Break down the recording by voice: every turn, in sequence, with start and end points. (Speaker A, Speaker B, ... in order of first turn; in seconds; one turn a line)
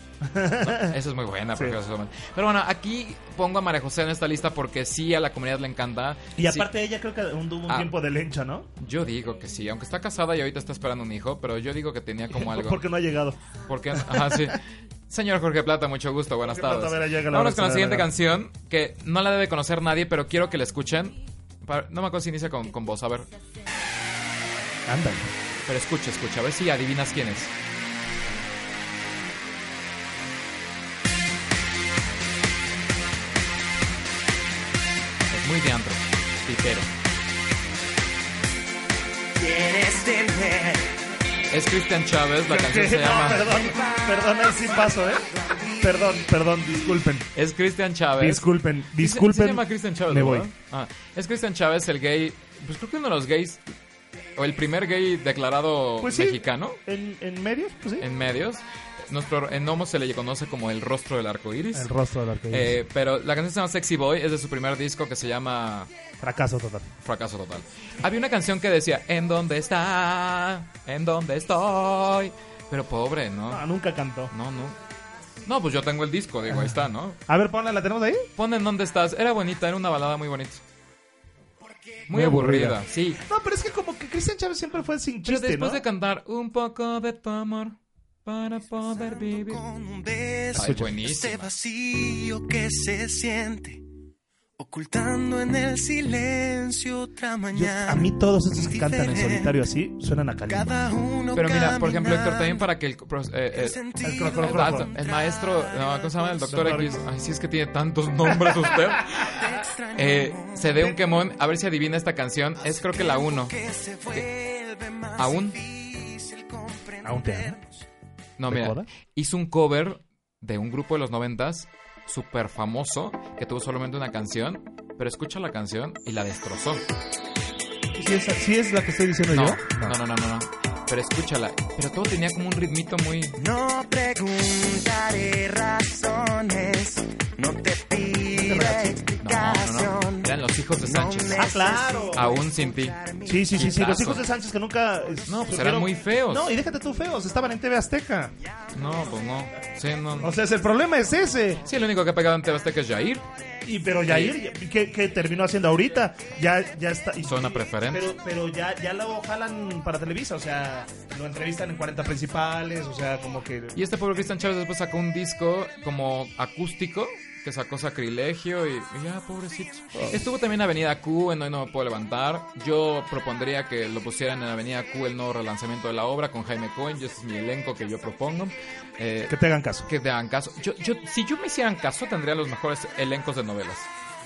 Speaker A: 0.2-1.0
Speaker B: 0.6-6.7
Speaker A: 6.4-8.7
Speaker B: 8.8-12.8
Speaker A: 12.3-13.4
Speaker B: 13.7-23.3
Speaker A: 13.9-14.6
Speaker A: 16.5-18.1
Speaker A: 24.9-25.3
Speaker B: 25.7-27.5
Speaker B: 35.3-36.9
Speaker C: 39.4-41.0
Speaker B: 41.5-43.6
Speaker A: 42.5-45.3
Speaker C: 43.6-46.2
Speaker A: 45.8-47.3
Speaker B: 47.4-53.7
Speaker A: 48.2-50.5
Speaker B: 54.4-56.8
Speaker A: 56.0-58.1
Speaker B: 58.0-61.9
Speaker A: 61.7-62.8
Speaker B: 62.5-65.9
Speaker A: 66.2-66.9
Speaker B: 67.0-73.6
Speaker A: 73.5-74.3
Speaker B: 74.3-74.8
Speaker B: 75.5-77.2
Speaker A: 76.5-78.3
Speaker B: 78.4-80.6
Speaker B: 82.1-83.2
Speaker A: 82.1-85.8
Speaker B: 85.2-89.6
Speaker C: 88.8-93.8
Speaker B: 90.5-91.5
Speaker A: 90.5-91.0
Speaker C: 94.6-99.6
Speaker A: 97.5-100.7
Speaker C: 100.5-102.7
Speaker B: 101.3-103.8
Speaker C: 103.5-106.3
Speaker A: 104.0-104.9
Speaker B: 104.3-109.4
Speaker A: 106.5-107.0
Speaker C: 109.2-111.0
Speaker B: 110.0-113.5
Speaker C: 112.6-117.7
Speaker B: 115.2-115.6
Speaker A: 117.0-117.7
Speaker B: 118.4-126.8
Speaker A: 118.5-118.9
Speaker A: 127.9-130.0
Speaker B: 129.3-133.4
Speaker C: 133.4-143.7
Speaker A: 138.3-139.0
Speaker B: 139.2-141.6
Speaker A: 141.3-142.3
Speaker B: 142.1-143.0
Speaker A: 143.2-148.3
Speaker B: 143.5-144.2
Speaker B: 145.3-146.5
Speaker B: 148.7-150.3
Speaker A: 150.2-151.6
Speaker B: 151.6-153.2
Speaker A: 153.7-163.8
Speaker B: 154.1-154.4
Speaker B: 157.2-158.1
Speaker B: 163.8-183.9
Speaker A: 169.9-170.2
Speaker A: 179.3-179.9